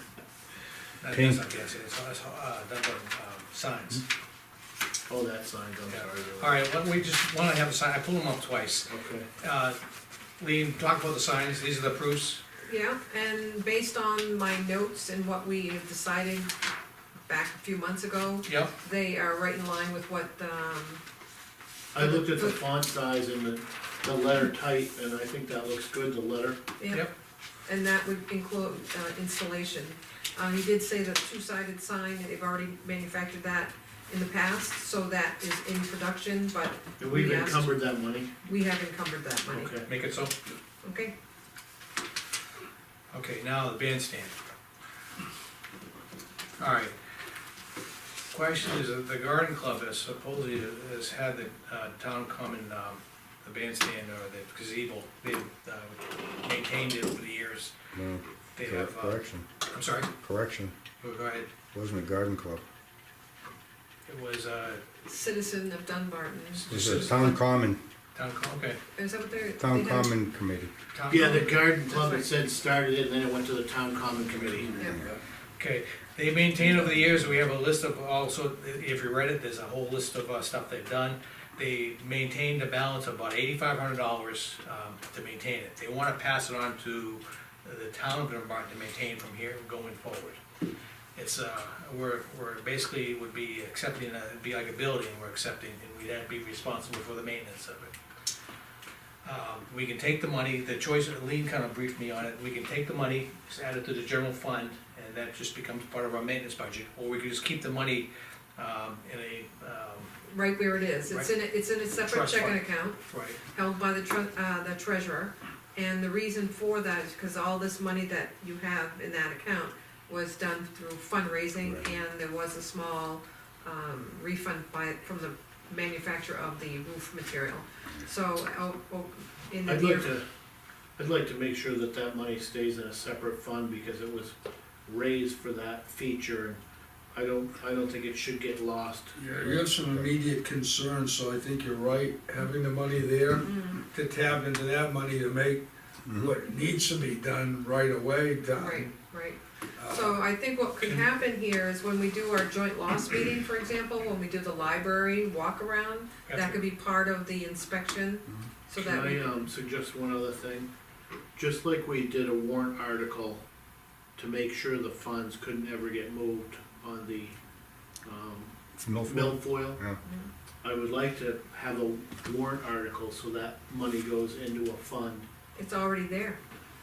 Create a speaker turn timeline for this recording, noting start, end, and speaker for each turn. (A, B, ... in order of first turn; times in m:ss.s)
0:01.0-0:04.0 A
0:01.1-0:01.4 B
0:05.1-0:06.6 C
0:05.9-0:09.8 A
0:08.9-0:09.3 C
0:10.4-0:12.4 A
0:12.6-0:16.5 D
0:17.2-0:21.0 D
0:18.4-0:18.7 A
0:21.9-0:26.6 C
0:22.0-0:22.6 D
0:26.8-0:27.1 D
0:27.6-0:37.7 D
0:37.0-0:38.3 C
0:38.4-0:39.7 D
0:39.5-0:39.9 C
0:39.8-0:40.4 A
0:40.8-0:41.1 D
0:43.1-0:44.3 A
0:46.6-0:47.0 A
0:48.3-0:57.7 A
0:57.9-0:59.5 B
0:58.6-1:00.1 A
1:00.2-1:00.7 B
1:01.0-1:01.5 A
1:01.7-1:02.6 B
1:04.0-1:04.8 A
1:05.0-1:07.3 D
1:06.6-1:07.4 A
1:06.7-1:07.8 B
1:08.1-1:08.8 A
1:09.0-1:10.1 D
1:09.6-1:10.7 B
1:10.9-1:11.5 A
1:11.1-1:14.8 C
1:11.1-1:12.2 D
1:14.4-1:15.2 E
1:14.8-1:15.1 B
1:15.6-1:30.4 A
1:31.2-1:37.9 A
1:39.2-1:50.1 A
1:50.3-2:10.1 D
1:52.0-1:53.4 A
2:09.6-2:10.2 C
2:11.0-2:14.3 C
2:14.8-2:16.6 C
2:17.1-2:19.1 C
2:19.2-2:25.6 E
2:19.4-2:20.1 B
2:23.4-2:23.8 D
2:26.0-2:26.3 B
2:26.1-2:28.9 E
2:28.6-2:39.3 D
2:29.8-2:30.2 E
2:36.3-2:36.6 A
2:38.8-2:40.7 C
2:41.3-2:43.4 C
2:44.1-2:47.4 C
2:48.0-2:48.5 C
2:48.8-2:50.0 B
2:49.0-2:49.8 C
2:50.0-2:50.3 D
2:50.6-2:55.3 C
2:55.6-2:56.4 D